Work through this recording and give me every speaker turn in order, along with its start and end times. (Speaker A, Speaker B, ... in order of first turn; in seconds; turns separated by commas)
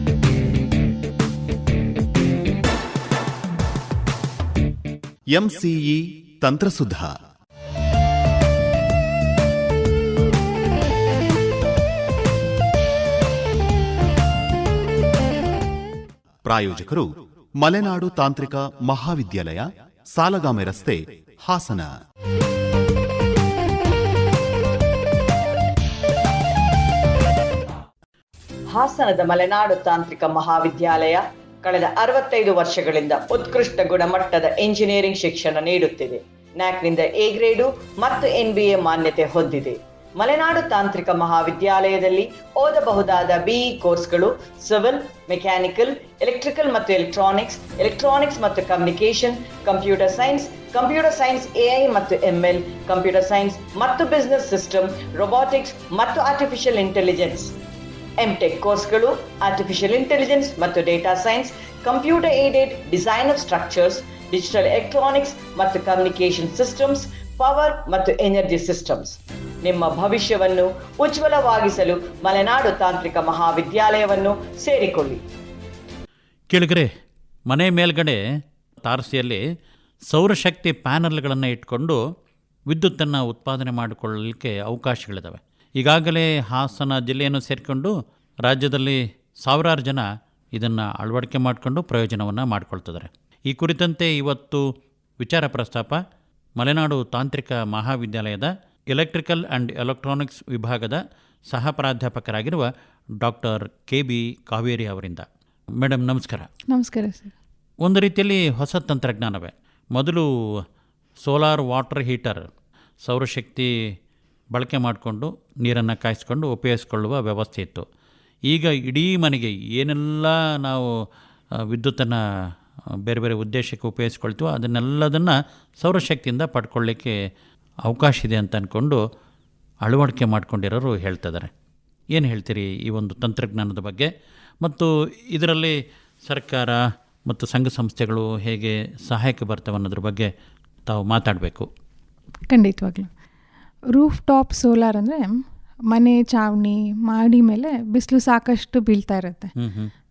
Speaker A: 5.3-7.1, Speaker A: 16.4-17.1, Speaker A: 17.6-21.9, Speaker B: 28.7-57.5, Speaker B: 58.2-75.2, Speaker C: 76.5-76.9, Speaker C: 77.5-78.2, Speaker C: 78.8-79.4, Speaker C: 80.1-82.0, Speaker C: 82.7-87.9, Speaker C: 88.4-94.6, Speaker C: 95.2-96.0, Speaker C: 96.6-102.7, Speaker C: 103.2-105.2, Speaker C: 105.8-106.5, Speaker D: 106.7-107.3, Speaker C: 107.8-110.6, Speaker C: 111.2-112.5, Speaker C: 113.0-113.7, Speaker C: 114.5-117.8, Speaker C: 118.5-120.9, Speaker C: 121.6-122.2, Speaker C: 123.0-127.2, Speaker C: 127.8-129.0, Speaker C: 129.8-131.5, Speaker C: 132.1-134.1, Speaker C: 134.6-140.3, Speaker C: 140.9-141.7, Speaker D: 142.5-143.1, Speaker D: 143.9-145.3, Speaker D: 145.9-149.5, Speaker C: 149.6-149.9